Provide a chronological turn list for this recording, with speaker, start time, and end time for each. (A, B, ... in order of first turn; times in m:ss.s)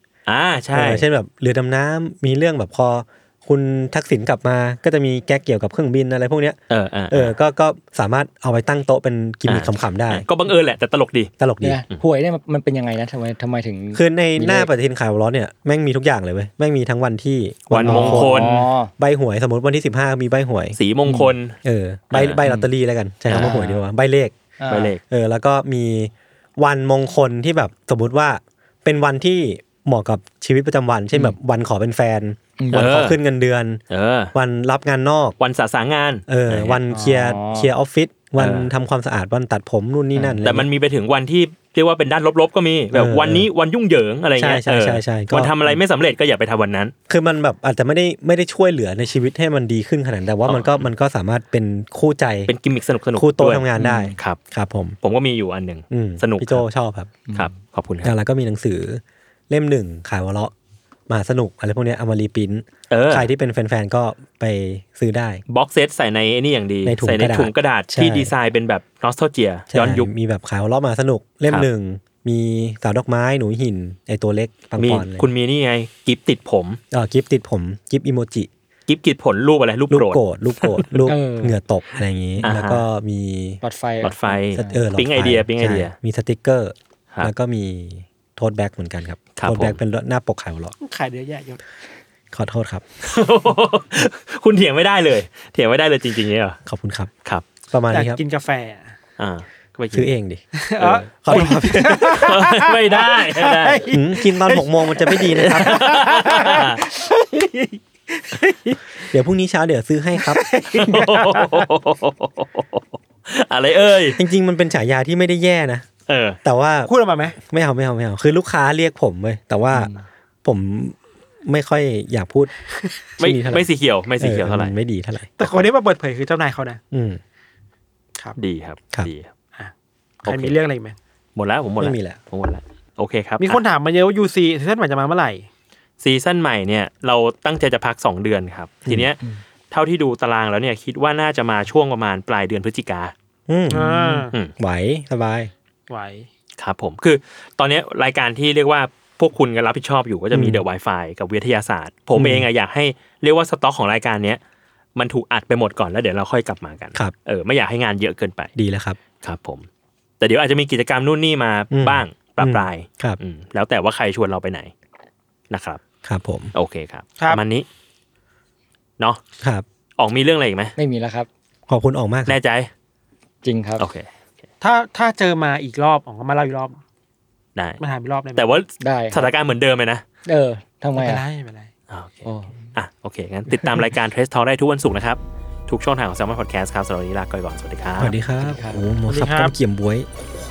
0:00.2-0:01.0 A
0:00.7-0:06.6 B
0:06.7-0:07.3 A
0:07.1-0:10.2 B
0:09.5-0:11.3 A
0:11.4-0:11.8 B
0:11.6-0:14.7 C
0:13.9-0:20.8 B
0:17.7-0:18.6 A
0:17.8-0:18.9 C
0:20.7-0:21.6 A
0:21.1-0:21.3 C
0:21.6-0:24.3 B
0:22.1-0:22.4 A
0:23.3-0:23.6 A
0:23.3-0:23.8 C
0:24.6-0:24.9 C
0:24.7-0:25.0 A
0:25.1-0:33.8 B
0:32.6-0:32.9 C
0:32.7-0:33.2 A
0:33.9-0:34.3 A
0:34.3-0:35.3 B
0:35.4-0:36.8 A
0:36.3-0:40.7 B
0:36.9-0:37.7 C
0:38.4-0:38.7 A
0:40.1-0:40.4 C
0:40.4-0:46.9 A
0:42.9-0:43.5 B
0:44.4-0:45.6 B
0:47.1-0:52.5 B
0:50.4-0:50.8 A
0:52.5-0:54.4 A
0:53.2-0:55.0 B
0:53.8-0:54.1 C
0:55.0-0:56.6 A
0:55.9-0:57.2 B
0:57.3-0:58.1 A
0:58.0-1:00.5 B
1:01.1-1:05.4 B
1:02.9-1:03.3 A
1:05.5-1:10.1 A
1:06.8-1:08.3 B
1:09.7-1:15.3 B
1:14.8-1:16.8 A
1:16.9-1:18.5 B
1:18.9-1:21.0 A
1:19.9-1:23.6 B
1:21.0-1:21.5 C
1:22.4-1:22.8 A
1:23.6-1:24.8 C
1:24.0-1:25.9 A
1:24.5-1:30.7 B
1:29.4-1:29.8 A
1:30.8-1:31.6 D
1:32.3-1:32.8 B
1:33.0-1:36.6 A
1:36.6-1:37.1 B
1:37.7-1:38.2 B
1:37.9-1:38.9 D
1:39.2-1:40.1 A
1:39.9-1:42.3 B
1:40.6-1:48.8 D
1:40.8-1:43.9 A
1:43.9-1:45.9 B
1:45.3-1:46.8 A
1:49.1-1:50.5 B
1:50.2-1:51.6 D
1:50.6-1:54.2 A
1:54.2-1:55.8 B
1:56.1-1:56.4 A
1:56.4-1:59.9 B
1:56.8-1:57.4 D
1:59.7-2:00.0 C
2:00.4-2:02.5 B
2:03.2-2:03.7 B
2:03.2-2:04.7 A
2:04.2-2:05.4 B
2:05.4-2:06.8 D
2:06.9-2:07.2 B
2:08.4-2:09.3 A
2:10.2-2:11.0 D
2:10.2-2:10.5 A
2:11.4-2:13.6 A
2:11.8-2:12.2 B
2:13.4-2:15.5 D
2:16.0-2:19.2 A
2:19.7-2:23.1 A
2:23.5-2:23.8 B
2:23.7-2:24.3 D
2:23.7-2:24.3 C
2:24.6-2:25.5 B
2:25.9-2:26.3 D
2:26.6-2:34.4 A
2:30.3-2:30.6 B
2:32.1-2:32.5 B
2:35.0-2:38.5 A
2:38.6-2:39.0 B
2:39.2-2:39.6 A
2:40.2-2:44.7 A
2:41.7-2:43.2 B
2:45.5-2:45.8 A
2:46.0-2:46.5 B
2:46.5-2:47.6 A
2:50.0-2:50.8 A
2:50.8-2:51.3 C
2:51.7-2:52.4 B
2:52.3-2:52.7 A
2:53.4-2:53.8 C
2:53.8-2:54.1 A
2:54.6-2:56.8 D
2:57.6-2:57.8 A
2:57.8-2:58.5 D
2:58.3-3:00.0 A
2:58.8-2:59.3 C
3:00.2-3:01.2 C
3:01.0-3:01.7 D
3:01.9-3:08.1 A
3:02.2-3:02.6 C
3:03.5-3:03.8 C
3:08.0-3:10.1 B
3:08.4-3:08.8 C
3:09.1-3:09.5 D